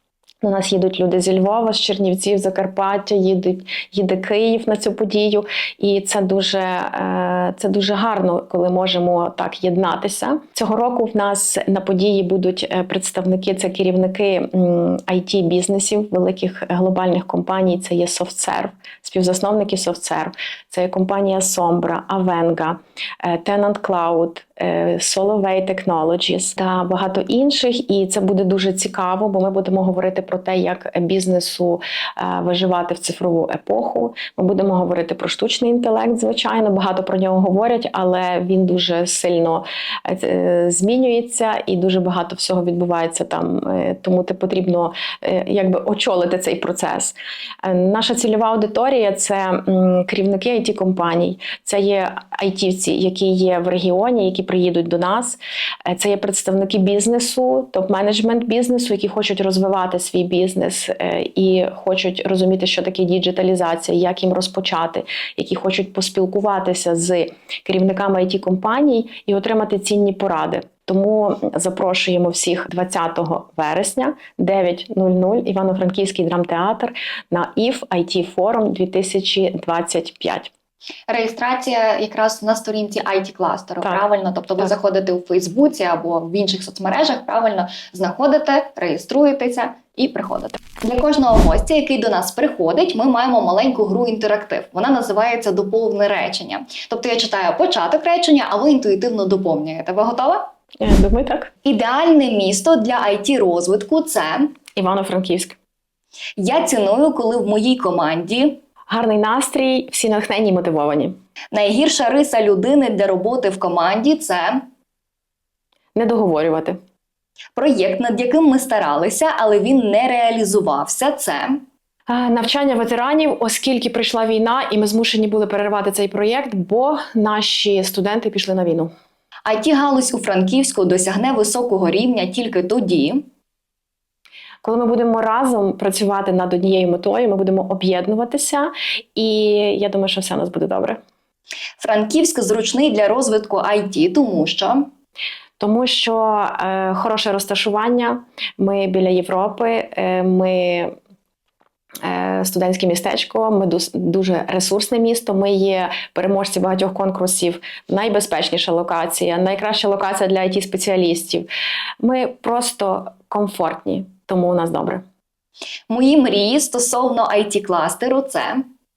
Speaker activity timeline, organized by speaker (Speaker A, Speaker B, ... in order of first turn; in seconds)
Speaker A: 0.4-80.5, 100.8-101.5, 104.8-105.6, 108.9-111.2, 116.0-116.8, 122.1-128.9, 134.6-141.0, 145.6-150.9, 152.0-161.5, 162.0-165.0
Speaker B: 81.1-100.5, 101.7-104.5, 106.4-108.6, 111.5-114.7, 117.6-121.6, 129.5-133.3, 141.8-144.9, 165.9-168.7